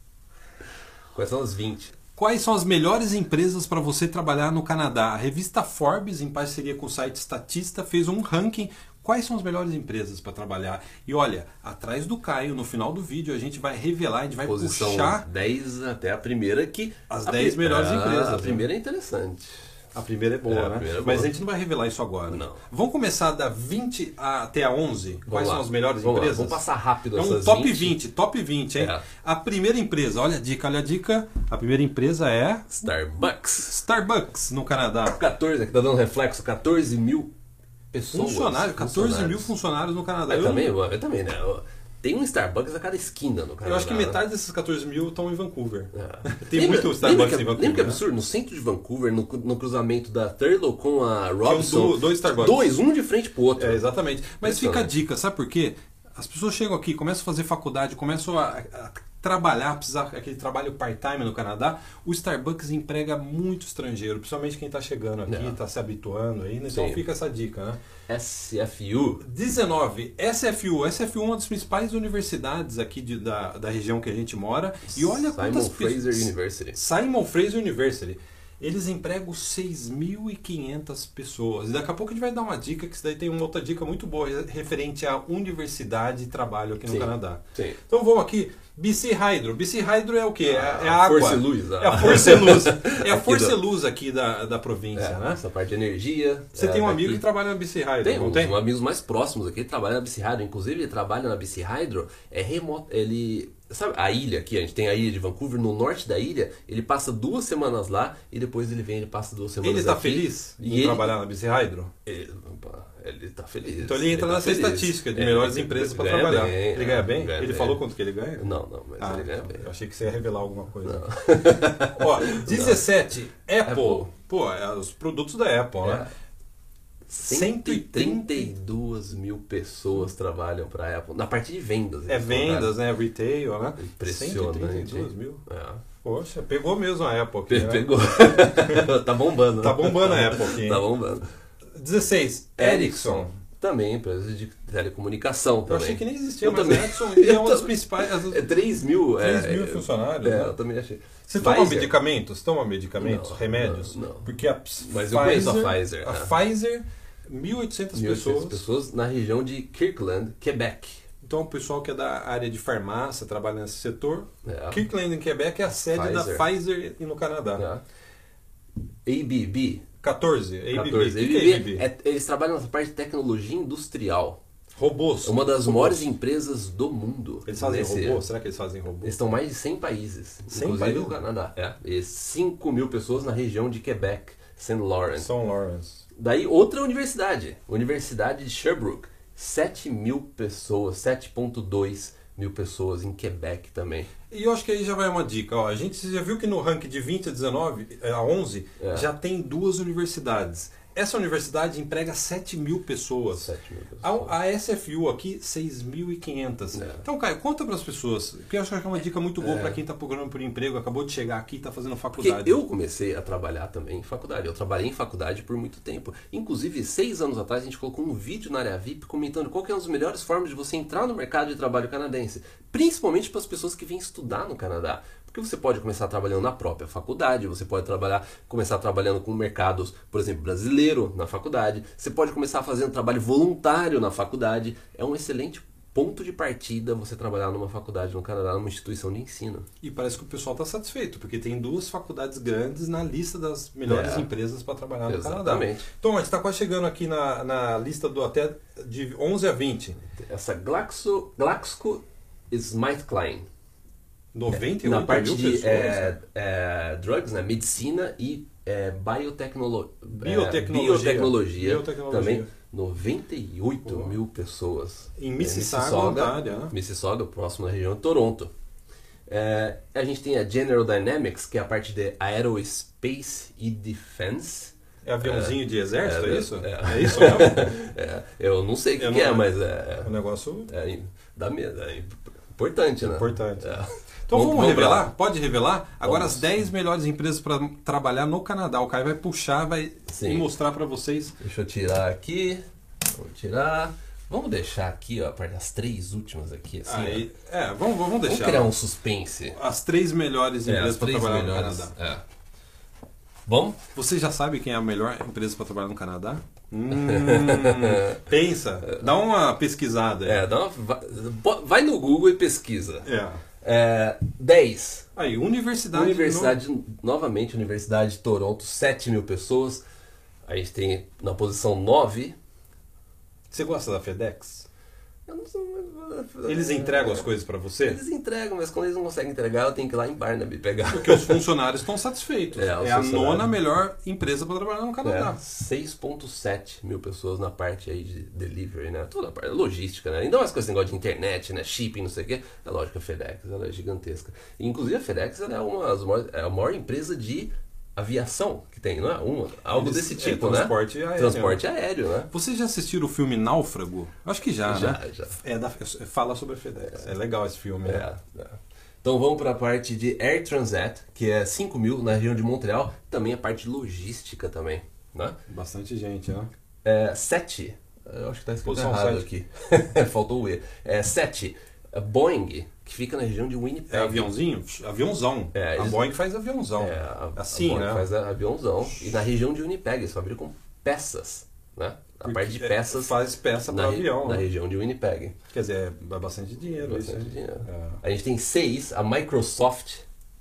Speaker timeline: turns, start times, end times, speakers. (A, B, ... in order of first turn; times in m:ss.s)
0:01.1-0:02.0 A
0:02.2-0:15.3 B
0:14.4-0:19.5 A
0:17.1-0:18.7 B
0:19.9-0:32.7 B
0:20.5-0:21.3 A
0:22.3-0:22.6 A
0:25.3-0:28.0 A
0:28.8-0:29.1 A
0:32.7-0:33.8 A
0:33.6-0:35.2 B
0:35.1-0:37.3 A
0:37.9-0:39.5 A
0:38.1-0:40.8 B
0:40.3-0:44.2 A
0:43.6-0:48.0 B
0:45.9-0:53.8 A
0:51.4-0:52.7 B
0:53.6-1:07.8 B
0:54.4-0:54.9 A
1:05.3-1:05.6 A
1:06.7-1:07.1 A
1:08.1-1:09.2 A
1:09.2-1:35.4 B
1:14.9-1:16.8 A
1:26.8-1:27.8 A
1:30.4-1:33.6 A
1:35.0-1:37.2 A
1:36.5-1:38.6 B
1:38.0-1:51.1 A
1:49.6-1:51.9 B
1:52.1-1:57.8 A
1:53.8-1:58.5 B
1:58.4-1:59.7 A
1:59.0-2:01.1 B
2:00.8-2:02.9 A
2:01.8-2:06.1 B
2:03.7-2:04.1 A
2:05.8-2:06.1 A
2:07.1-2:08.5 B
2:07.2-2:12.8 A
2:12.1-2:15.4 B
2:13.8-2:15.8 A
2:16.0-2:18.9 B
2:17.5-2:21.3 A
2:19.6-2:20.8 B
2:21.7-2:23.3 B
2:22.6-2:31.9 A
2:25.7-2:28.4 B
2:29.2-2:30.6 B
2:31.2-2:38.6 B
2:33.0-2:36.4 A
2:37.9-2:41.1 A
2:41.2-2:47.6 B
2:44.4-2:44.8 A
2:45.9-2:46.5 A
2:47.6-2:47.8 A
2:49.1-2:49.8 A
2:50.0-2:51.8 B
2:50.7-2:54.4 A
2:54.8-2:56.1 B
2:55.2-2:58.3 A
2:57.5-2:59.2 B
2:59.0-3:05.3 A
3:00.5-3:01.2 B
3:05.2-3:06.0 B
3:06.2-3:14.1 A
3:14.3-3:23.5 B
3:18.8-3:19.1 A
3:23.4-3:24.4 A
3:24.0-3:32.6 B
3:26.7-3:27.0 A
3:29.4-3:29.8 A
3:32.2-3:59.7 A
3:59.8-4:10.0 B
4:03.8-4:04.3 A
4:05.1-4:05.9 A
4:10.2-4:13.5 A
4:14.3-4:16.2 B
4:14.5-4:28.5 A
4:20.2-4:22.5 B
4:23.9-4:24.2 B
4:25.2-4:26.7 B
4:29.3-4:40.1 A
4:35.0-4:37.8 B
4:39.0-4:39.5 B
4:40.0-4:40.7 B
4:40.7-4:45.1 A
4:43.0-4:51.4 B
4:46.0-4:46.6 A
4:50.1-4:50.5 A
4:51.4-4:57.3 A
4:56.9-4:58.7 B
4:58.3-4:59.6 A
4:59.5-5:01.9 B
5:00.6-5:02.2 A
5:03.5-5:03.8 A
5:03.9-5:10.4 B
5:06.9-5:08.2 A
5:10.2-5:13.1 A
5:13.0-5:13.4 B
5:13.6-5:15.1 A
5:15.2-5:16.6 B
5:15.9-5:19.8 A
5:20.5-5:22.4 A
5:23.5-5:24.7 B
5:25.3-5:31.4 A
5:26.5-5:28.0 B
5:30.9-5:35.4 B
5:32.5-5:33.6 A
5:35.0-5:52.3 A
5:49.7-5:51.6 B
5:52.3-5:58.1 B
5:54.6-5:55.4 A
5:57.8-6:05.4 A
6:05.5-6:06.5 B
6:06.8-6:14.4 A
6:08.6-6:09.3 B
6:13.9-6:18.1 B
6:15.5-6:16.1 A
6:16.8-6:23.2 A
6:22.2-6:24.5 B
6:23.7-6:25.4 A
6:25.5-6:28.0 B
6:26.8-6:30.0 A